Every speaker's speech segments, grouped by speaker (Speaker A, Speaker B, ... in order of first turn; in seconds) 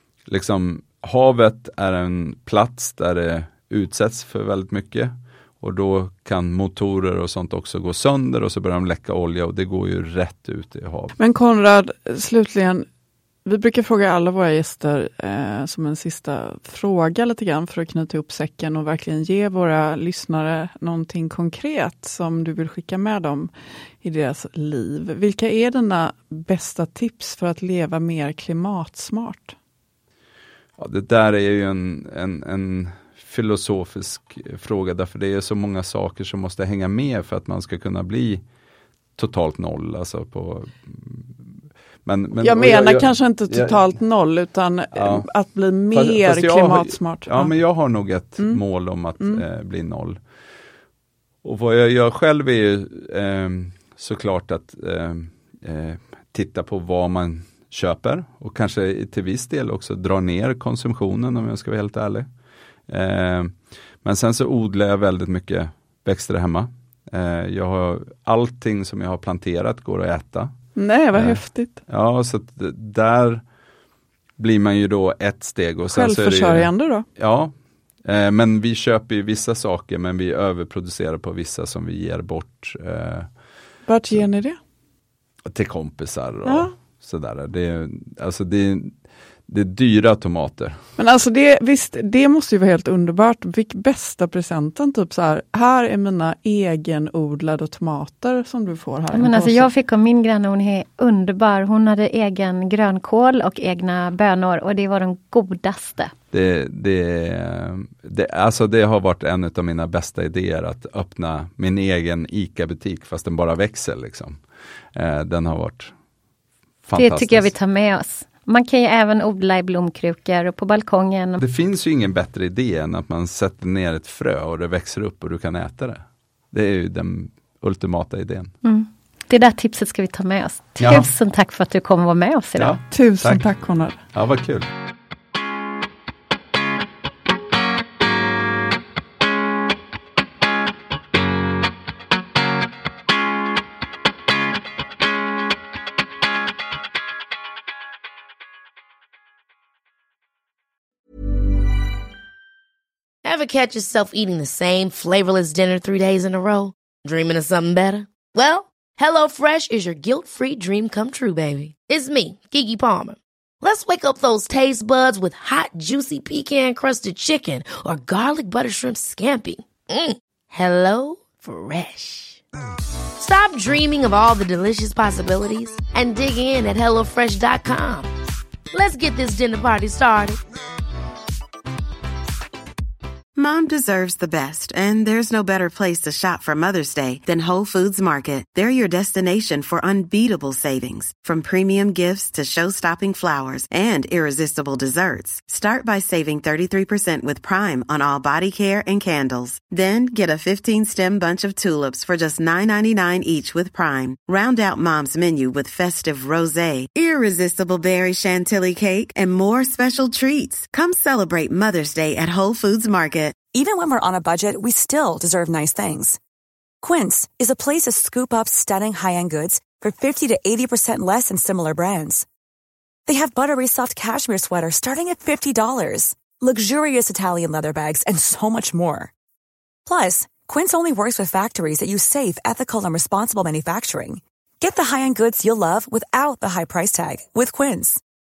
Speaker A: 0.3-11.1, 30.8-38.4, 39.2-41.4, 42.0-43.8, 44.9-45.2, 45.9-50.2, 51.4-62.3, 62.9-70.5, 71.1-73.4, 74.4-77.5, 78.0-83.3, 85.5-89.0, 89.5-90.8, 106.3-114.4, 114.9-115.9, 116.9-117.5, 121.4-128.5, 130.8-131.1, 132.6-133.5, 134.1-134.7
Speaker B: 11.2-12.9, 13.4-23.5, 24.0-29.6, 42.4-47.5, 70.8-71.8, 75.9-77.0, 83.8-84.6, 86.4-86.7, 91.0-99.7, 132.9-134.0
Speaker C: 99.1-106.1, 117.0-121.4, 128.6-132.8
Speaker D: 153.2-172.4, 173.2-178.1, 178.7-180.4
Speaker E: 183.3-213.3
Speaker F: 213.5-216.2, 216.8-222.3, 223.1-229.1, 229.8-238.0